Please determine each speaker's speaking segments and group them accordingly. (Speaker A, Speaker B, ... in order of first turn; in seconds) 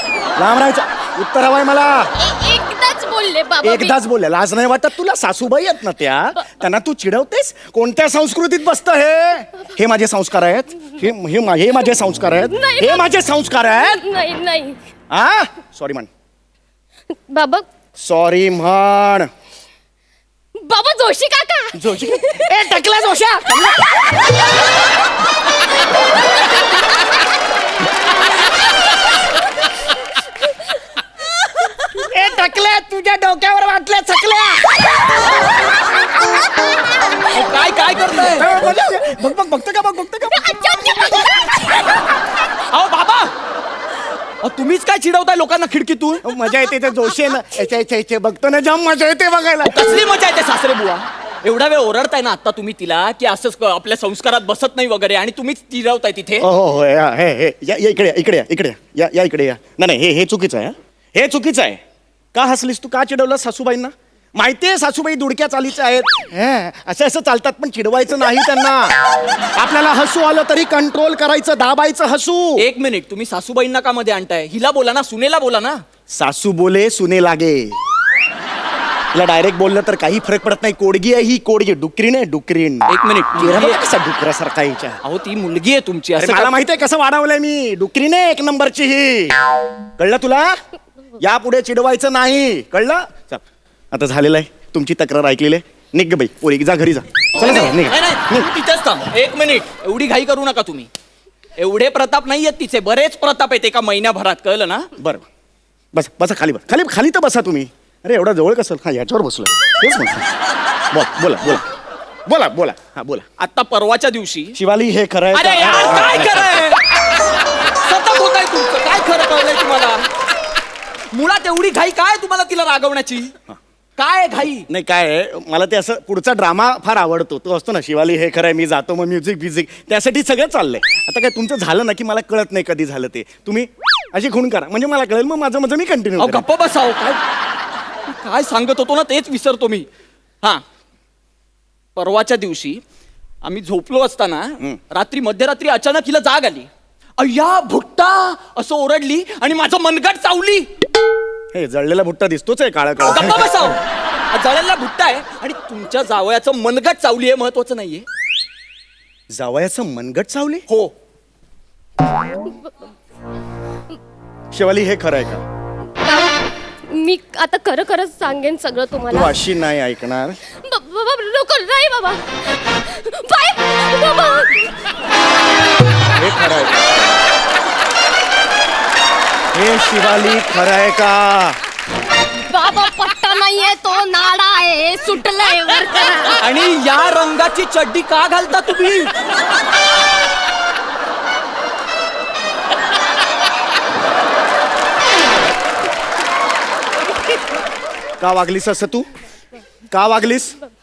Speaker A: 0.3-2.1, 3.6-14.0, 15.1-16.1, 18.0-19.3, 21.7-23.9, 31.9-34.9, 38.3-41.4, 46.2-49.8, 56.4-61.8, 62.3-72.6, 76.1-77.8, 79.1-85.0, 86.2-89.4, 90.0-90.5, 91.2-98.5, 105.0-105.2, 105.9-110.2, 110.9-111.6, 112.2-113.3, 114.5-116.7, 124.7-136.4, 151.5-153.8, 159.3-160.6, 164.5-165.4, 169.1-170.4, 176.1-177.2, 179.5-181.6, 198.2-199.1, 199.9-200.6
Speaker B: 2.2-4.0, 12.5-13.1, 13.7-14.8, 17.3-17.6, 20.6-22.6, 40.4-41.6, 166.0-169.4, 170.5-174.7, 182.4-186.4
Speaker C: 37.3-38.5, 42.7-43.3, 44.4-46.2, 49.6-56.5, 72.6-75.8, 82.9-83.8, 85.0-86.5, 97.3-100.9, 101.6-104.9, 113.4-114.6, 115.3-120.1, 121.1-123.3, 124.0-124.7, 136.2-137.2, 138.0-139.8, 141.9-142.8, 143.4-150.7, 153.1-158.0, 186.4-189.1